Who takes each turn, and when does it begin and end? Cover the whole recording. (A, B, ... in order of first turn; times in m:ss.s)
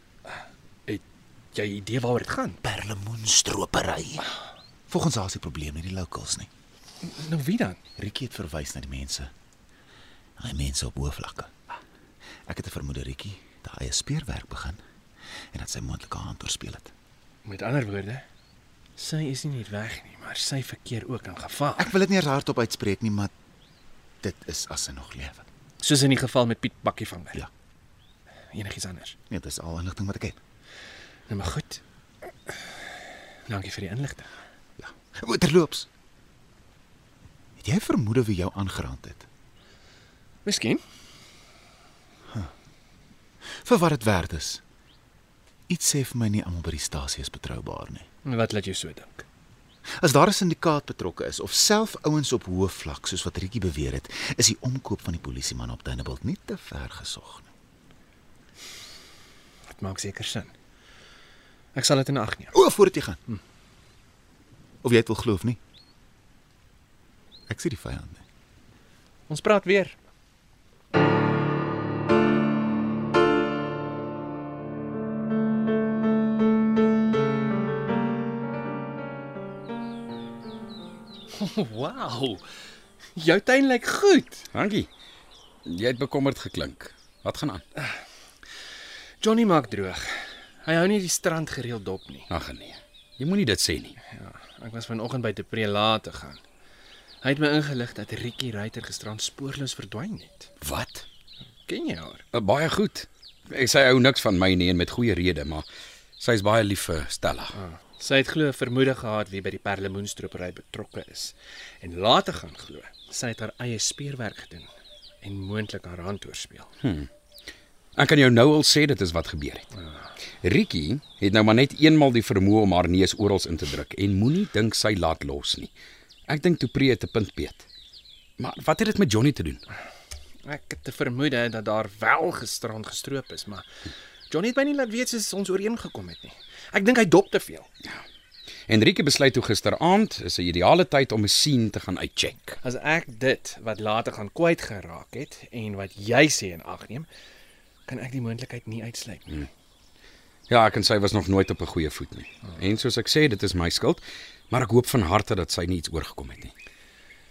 0:00.3-0:02.6 A
0:02.6-0:04.2 B
0:04.9-0:06.5 B
0:07.0-0:07.8 A
0:08.0-0:09.3 B
0:10.4-0:11.6 B
0:12.5-0:14.8 B
0:15.5-0:16.9 B
0:17.4-0:18.2 A
0:19.0-0:21.9 A
0:21.8-0:23.3 B
0:24.2-0:25.4 B
0:25.8-0:27.4 A
0:28.5-0:29.2 A
0:29.3-0:30.4 B
0:31.3-0:31.8 A
0:32.5-0:32.9 A
0:33.4-0:34.3 A
0:34.8-0:35.9 B
0:37.6-0:39.3 B
0:40.4-0:40.8 A
0:43.4-0:44.6 B
0:45.7-0:48.0 B
0:48.2-0:49.2 A
0:50.0-0:57.5 B
0:59.7-1:00.5 A
1:01.7-1:02.5 A
1:02.5-1:03.2 B
1:04.8-1:05.6 B
1:07.5-1:08.2 B
1:09.3-1:10.0 A
1:21.3-1:22.4 A
1:23.2-1:24.5 A
1:24.5-1:24.9 C
1:25.6-1:27.6 C
1:29.2-1:32.3 A
1:32.3-1:34.0 C
1:34.0-1:36.4 A
1:37.2-1:40.5 A
1:40.6-1:41.0 C
1:41.6-1:42.2 A
1:42.3-1:45.6 C
1:46.2-1:47.6 C
1:47.5-1:54.7 A
1:55.2-1:56.7 A
1:56.8-1:57.1 C
1:58.0-1:59.7 C
2:00.4-2:05.7 C
2:06.3-2:07.6 C
2:08.4-2:09.6 C
2:10.4-2:13.6 A
2:14.3-2:17.7 A
2:18.7-2:22.6 C
2:22.6-2:27.1 A
2:27.8-2:29.5 A
2:30.5-2:36.5 C